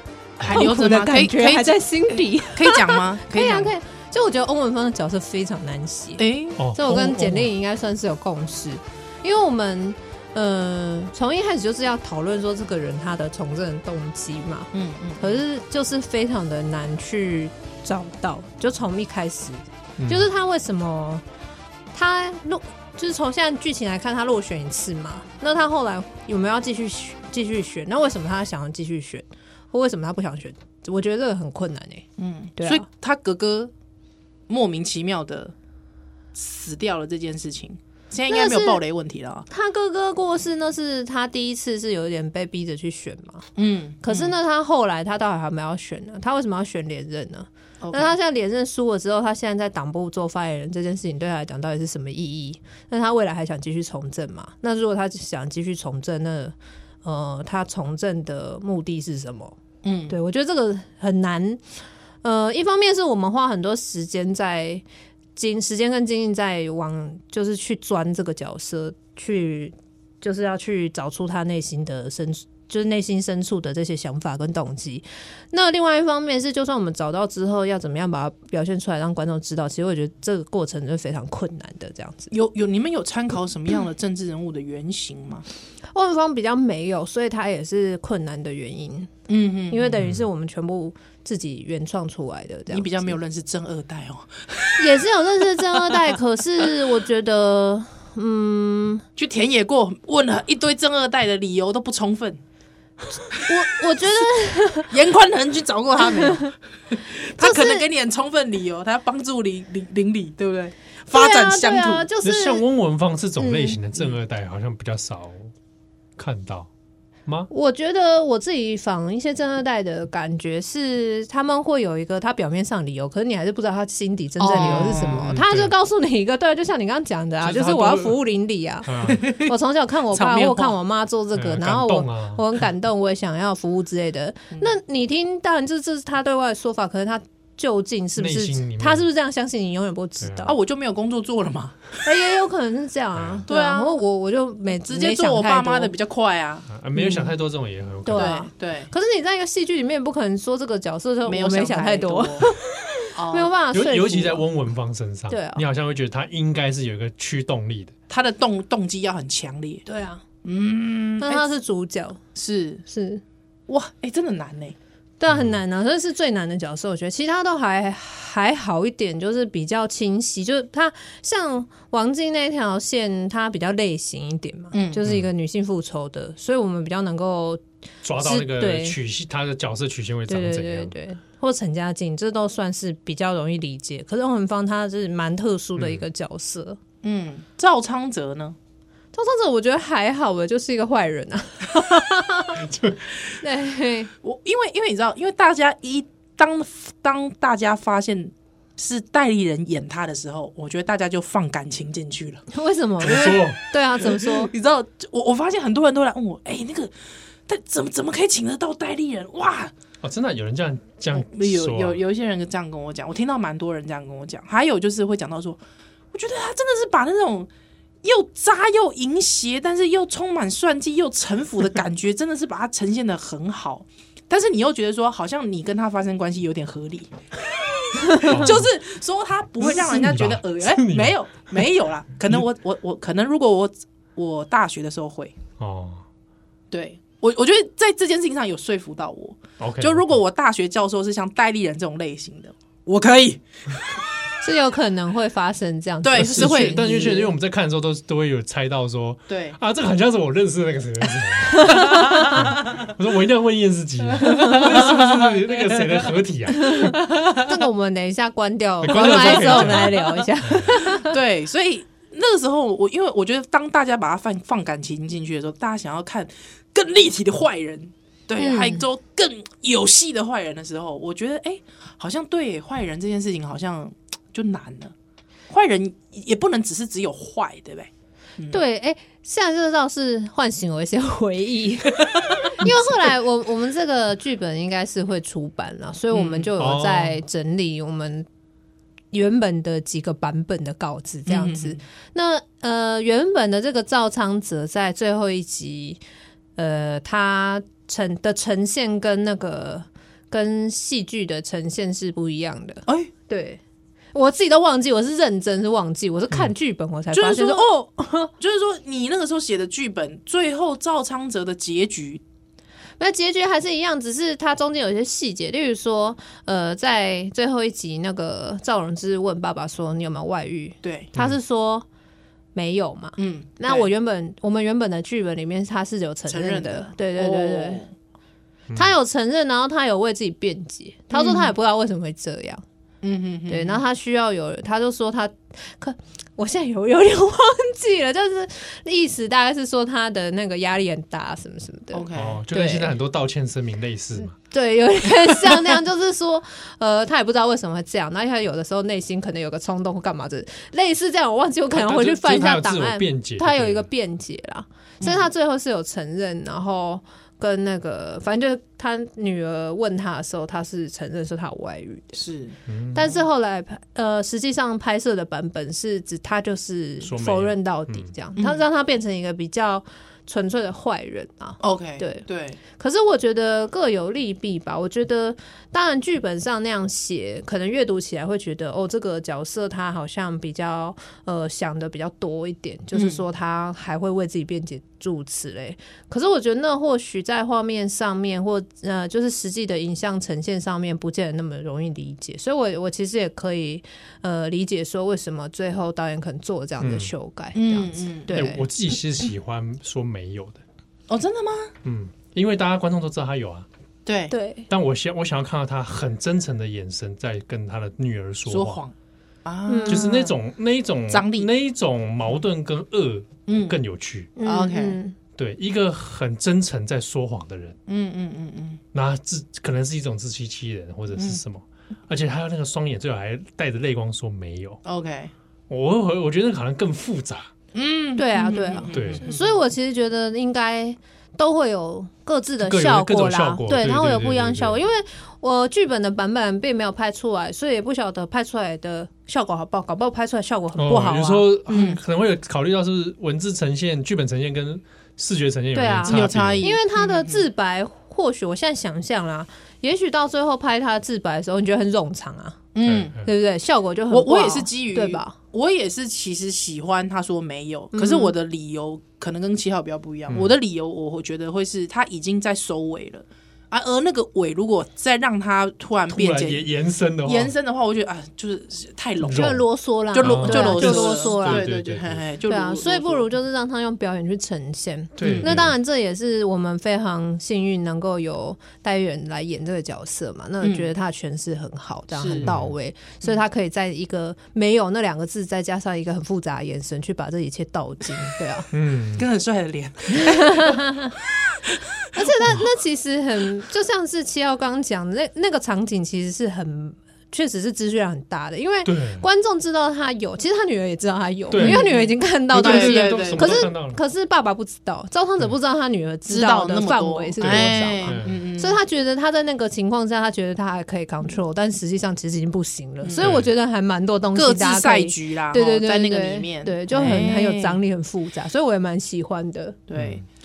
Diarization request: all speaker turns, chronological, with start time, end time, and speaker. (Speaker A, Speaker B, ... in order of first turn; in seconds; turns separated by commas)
Speaker A: 0.4-0.7, Speaker B: 0.4-1.8, Speaker C: 0.5-21.2, Speaker B: 2.4-3.7, Speaker B: 6.2-6.6, Speaker A: 6.6-7.5, Speaker B: 14.7-15.4, Speaker A: 20.0-20.3, Speaker C: 21.9-32.1, Speaker B: 32.2-33.7, Speaker C: 32.6-32.9, Speaker B: 34.5-35.5, Speaker B: 36.3-39.5, Speaker C: 38.3-38.8, Speaker C: 39.5-43.5, Speaker B: 43.6-44.3, Speaker C: 44.0-59.6, Speaker B: 47.8-48.1, Speaker B: 59.8-60.2, Speaker C: 60.1-61.6, Speaker C: 62.2-64.8, Speaker C: 65.3-82.3, Speaker B: 82.3-85.5, Speaker C: 85.9-89.1, Speaker B: 89.3-90.0, Speaker C: 89.7-93.2, Speaker A: 90.0-90.3, Speaker B: 92.7-94.9, Speaker C: 94.8-99.0, Speaker B: 99.2-102.4, Speaker C: 103.3-104.9, Speaker B: 104.9-112.1, Speaker C: 107.4-107.8, Speaker C: 111.1-112.6, Speaker A: 112.2-115.5, Speaker C: 113.4-113.8, Speaker A: 116.2-116.7, Speaker C: 117.5-140.6, Speaker B: 124.4-125.3, Speaker A: 124.6-125.7, Speaker A: 127.4-128.2, Speaker A: 128.8-129.2, Speaker B: 129.1-129.5, Speaker B: 130.1-130.8, Speaker A: 131.3-132.4, Speaker A: 138.2-139.1, Speaker A: 140.2-140.5, Speaker B: 140.5-142.0, Speaker C: 142.0-145.9, Speaker A: 143.2-143.4, Speaker B: 143.5-144.0, Speaker B: 144.9-147.3, Speaker A: 146.7-148.3, Speaker C: 148.1-154.4, Speaker B: 148.2-148.9, Speaker B: 151.3-152.5, Speaker B: 153.2-153.5, Speaker A: 153.7-157.9, Speaker C: 155.3-155.6, Speaker B: 158.1-159.9, Speaker C: 159.9-160.2, Speaker B: 160.4-161.5, Speaker C: 161.2-162.2, Speaker B: 162.3-162.8, Speaker C: 162.9-163.2, Speaker B: 163.7-164.8, Speaker C: 165.2-177.6, Speaker A: 165.3-165.6, Speaker B: 174.7-175.0, Speaker A: 178.0-180.9, Speaker C: 178.2-179.0, Speaker C: 180.3-186.8, Speaker A: 185.8-186.0, Speaker B: 187.0-188.6, Speaker C: 189.1-192.7, Speaker A: 192.6-193.0, Speaker C: 193.4-194.1, Speaker B: 194.2-202.5, Speaker C: 202.5-204.5, Speaker A: 203.0-203.6, Speaker B: 204.0-206.9, Speaker B: 207.5-209.7, Speaker A: 210.0-212.0, Speaker B: 211.1-215.6, Speaker B: 216.1-217.5, Speaker B: 218.0-235.3, Speaker A: 228.2-228.7, Speaker A: 229.6-231.7, Speaker A: 235.6-236.1, Speaker B: 236.7-244.0, Speaker A: 239.6-240.2, Speaker C: 244.4-247.1, Speaker B: 246.0-247.3, Speaker A: 246.2-257.0, Speaker B: 249.3-249.6, Speaker C: 251.5-252.4, Speaker C: 254.3-254.6, Speaker B: 254.4-255.9, Speaker C: 256.6-261.1, Speaker A: 258.8-260.8, Speaker B: 259.0-259.9, Speaker B: 260.8-274.9, Speaker C: 268.4-268.8, Speaker B: 275.5-278.6, Speaker C: 278.5-288.3, Speaker B: 282.4-282.8, Speaker B: 286.1-286.5, Speaker A: 286.6-287.2, Speaker C: 289.1-296.0, Speaker B: 291.3-291.8, Speaker C: 296.6-303.6, Speaker C: 304.1-308.3, Speaker B: 307.1-307.7, Speaker B: 308.4-312.2, Speaker C: 313.0-321.9, Speaker B: 320.8-321.1, Speaker C: 322.6-327.8, Speaker B: 323.2-323.9, Speaker B: 326.3-327.9, Speaker C: 328.8-332.6, Speaker B: 331.1-331.5, Speaker B: 333.0-333.8, Speaker C: 333.5-342.9, Speaker B: 341.9-342.4, Speaker A: 342.1-344.4, Speaker C: 344.4-362.2, Speaker A: 351.7-353.9, Speaker B: 355.0-355.3, Speaker B: 362.2-362.6, Speaker A: 362.7-363.1, Speaker C: 362.9-398.6, Speaker A: 367.0-368.1, Speaker B: 368.4-368.6, Speaker B: 371.6-372.6, Speaker B: 382.9-383.2, Speaker A: 396.8-397.1, Speaker B: 397.6-398.4, Speaker A: 398.3-400.6, Speaker B: 401.1-401.7, Speaker A: 401.8-403.7, Speaker B: 404.1-404.3, Speaker C: 404.3-404.7, Speaker A: 404.7-408.8, Speaker B: 408.5-408.9, Speaker B: 409.4-410.4, Speaker C: 409.7-410.2, Speaker A: 409.9-414.3, Speaker B: 411.1-411.5, Speaker B: 413.5-413.8, Speaker C: 414.4-415.2, Speaker B: 414.4-415.0, Speaker A: 415.4-417.8, Speaker B: 417.9-418.8, Speaker A: 418.9-424.8, Speaker B: 424.9-425.3, Speaker A: 425.7-427.5, Speaker B: 427.7-429.6, Speaker C: 428.2-441.5, Speaker A: 428.9-429.2, Speaker A: 432.6-434.8, Speaker A: 440.8-446.7, Speaker B: 441.7-442.0, Speaker C: 445.7-452.6, Speaker B: 446.1-447.5, Speaker B: 452.8-453.2, Speaker A: 452.9-453.2, Speaker C: 453.2-455.4, Speaker B: 454.1-466.7, Speaker C: 457.9-458.3, Speaker A: 460.3-460.6, Speaker A: 466.1-467.5, Speaker B: 467.2-469.6, Speaker A: 469.2-469.6, Speaker C: 469.3-471.7, Speaker B: 470.1-473.3, Speaker A: 470.2-472.2, Speaker C: 472.5-488.7, Speaker A: 475.2-475.8, Speaker B: 475.2-475.6, Speaker B: 480.6-480.9, Speaker B: 482.1-482.5, Speaker A: 482.4-482.7, Speaker A: 488.7-489.3, Speaker B: 489.2-492.1, Speaker C: 490.1-491.1, Speaker C: 492.1-519.8, Speaker A: 498.9-499.3, Speaker A: 501.5-501.9, Speaker B: 501.6-503.7, Speaker A: 502.5-504.0, Speaker B: 506.3-508.8, Speaker A: 507.4-508.4, Speaker B: 513.0-513.4, Speaker A: 513.2-513.5, Speaker B: 514.4-517.8, Speaker B: 519.9-520.2, Speaker A: 520.0-520.2